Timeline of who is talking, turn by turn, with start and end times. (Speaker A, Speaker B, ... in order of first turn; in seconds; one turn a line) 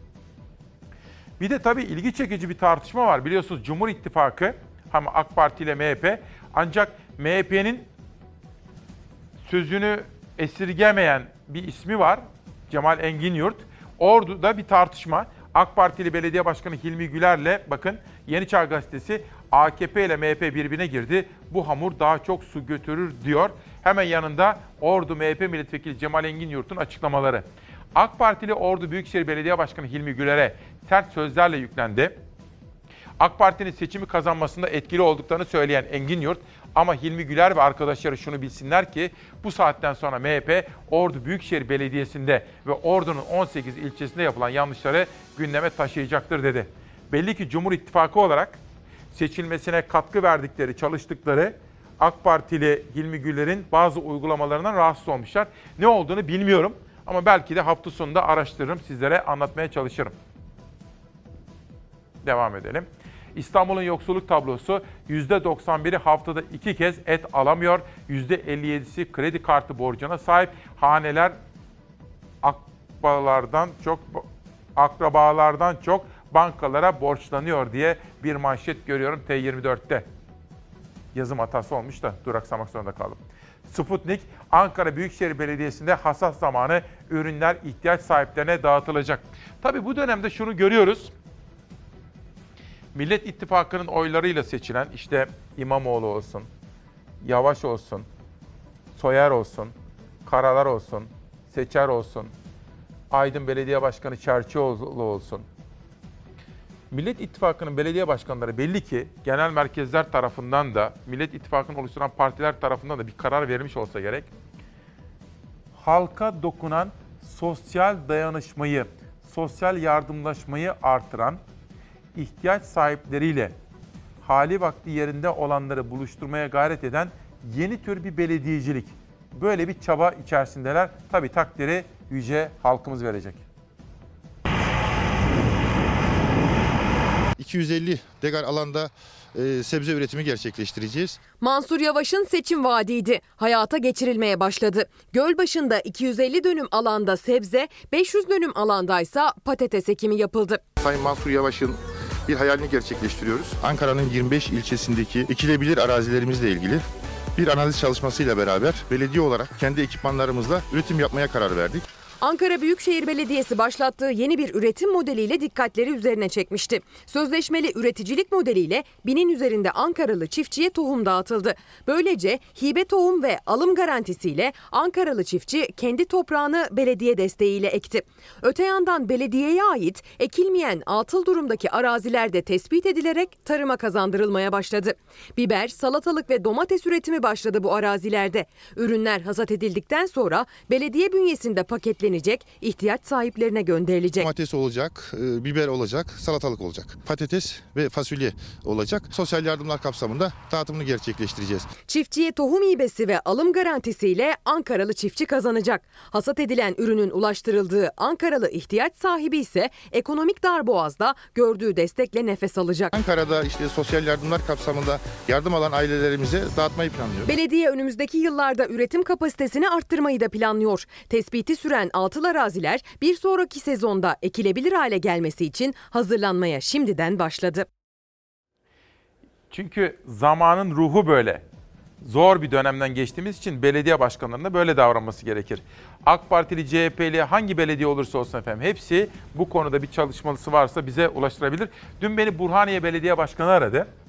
Speaker A: 1.4-7.9
Speaker A: 9.5-32.2
Speaker A: 33.2-48.6
Speaker A: 49.1-60.1
Speaker A: 62.2-71.4
Speaker A: 72.4-74.2
Speaker A: 74.8-80.1
Speaker A: 81.2-91.1
Speaker A: 93.0-96.5
Speaker A: 97.2-98.1
Speaker A: 99.0-99.7
Speaker A: 100.3-102.3
Speaker A: 103.1-105.5
Speaker A: 106.9-114.3
Speaker A: 115.8-121.4
Speaker A: 122.2-123.5
Speaker A: 124.2-133.4
Speaker B: 137.4-141.2
Speaker C: 141.4-150.6
Speaker B: 150.8-156.8
Speaker B: 157.4-161.8
Speaker C: 162.2-194.3
Speaker B: 194.2-201.7
Speaker C: 201.9-212.9
Speaker B: 212.9-217.3
Speaker C: 217.3-227.7
Speaker A: 229.5-231.4
Speaker A: 232.0-243.9